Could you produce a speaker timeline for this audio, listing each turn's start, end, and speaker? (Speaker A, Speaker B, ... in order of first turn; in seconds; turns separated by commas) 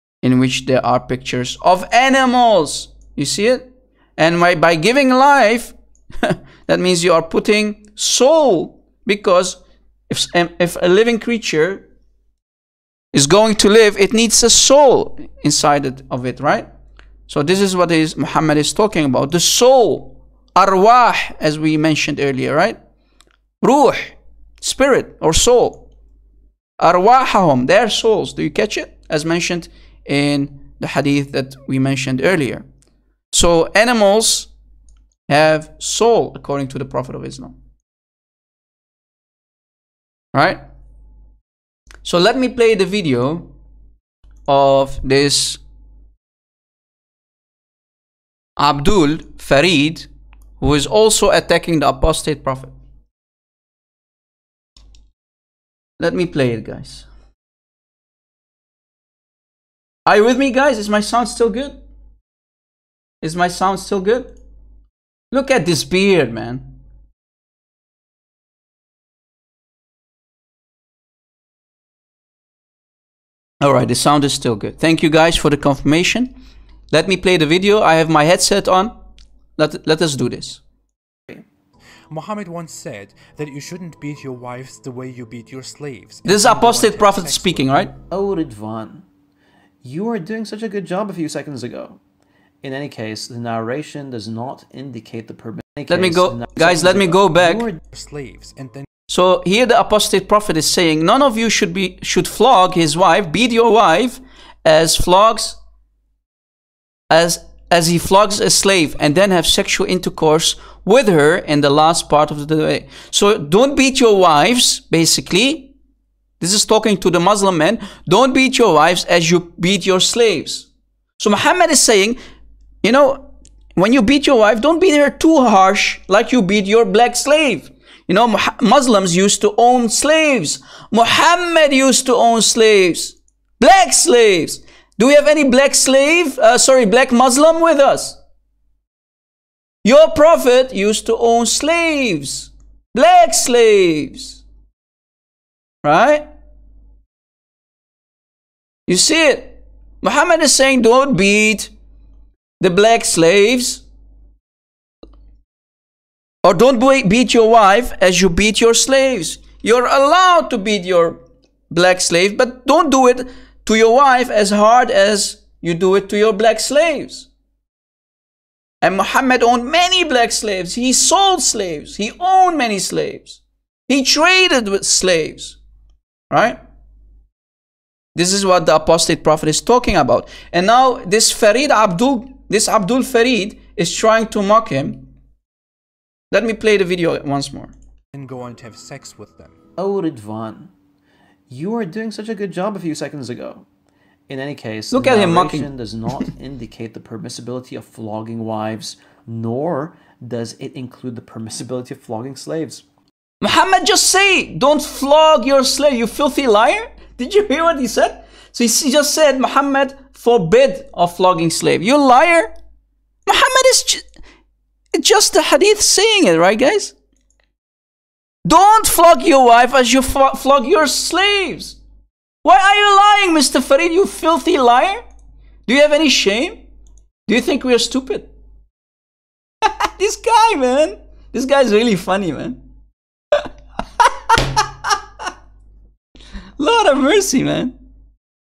Speaker A: 0.2-11.8, Speaker A: 13.1-16.7, Speaker A: 17.3-22.8, Speaker A: 23.6-25.8, Speaker A: 26.8-32.6, Speaker A: 33.3-34.5, Speaker A: 35.3-37.5, Speaker A: 40.3-40.6, Speaker A: 42.0-43.5, Speaker A: 44.5-45.6, Speaker A: 48.6-50.1, Speaker A: 50.6-52.7, Speaker A: 56.0-57.0, Speaker A: 60.0-61.8, Speaker A: 63.2-64.3, Speaker A: 65.3-66.7, Speaker A: 73.6-76.3, Speaker A: 76.9-79.0, Speaker A: 79.6-80.6, Speaker B: 82.1-87.7, Speaker A: 86.2-87.9, Speaker C: 88.1-89.0, Speaker C: 89.8-92.0, Speaker C: 92.6-97.8, Speaker A: 95.9-97.6, Speaker B: 97.8-98.8, Speaker A: 99.1-105.6, Speaker A: 107.1-115.7, Speaker A: 116.4-120.7, Speaker A: 121.2-122.2, Speaker A: 122.8-138.2, Speaker A: 139.8-144.4, Speaker A: 145.8-146.2, Speaker A: 148.9-151.7, Speaker A: 152.6-153.8, Speaker A: 156.4-167.3, Speaker A: 168.8-175.6, Speaker A: 176.3-176.6, Speaker A: 178.1-185.1, Speaker A: 186.3-187.7, Speaker B: 188.1-189.6, Speaker C: 189.8-190.7, Speaker C: 191.5-193.7, Speaker C: 194.3-202.8, Speaker A: 194.9-195.7, Speaker A: 203.4-212.5, Speaker A: 213.2-214.1, Speaker A: 214.9-216.9, Speaker A: 218.4-221.8, Speaker A: 222.4-225.0, Speaker A: 225.7-226.6, Speaker A: 227.3-228.3, Speaker A: 229.6-232.6, Speaker A: 236.6-237.7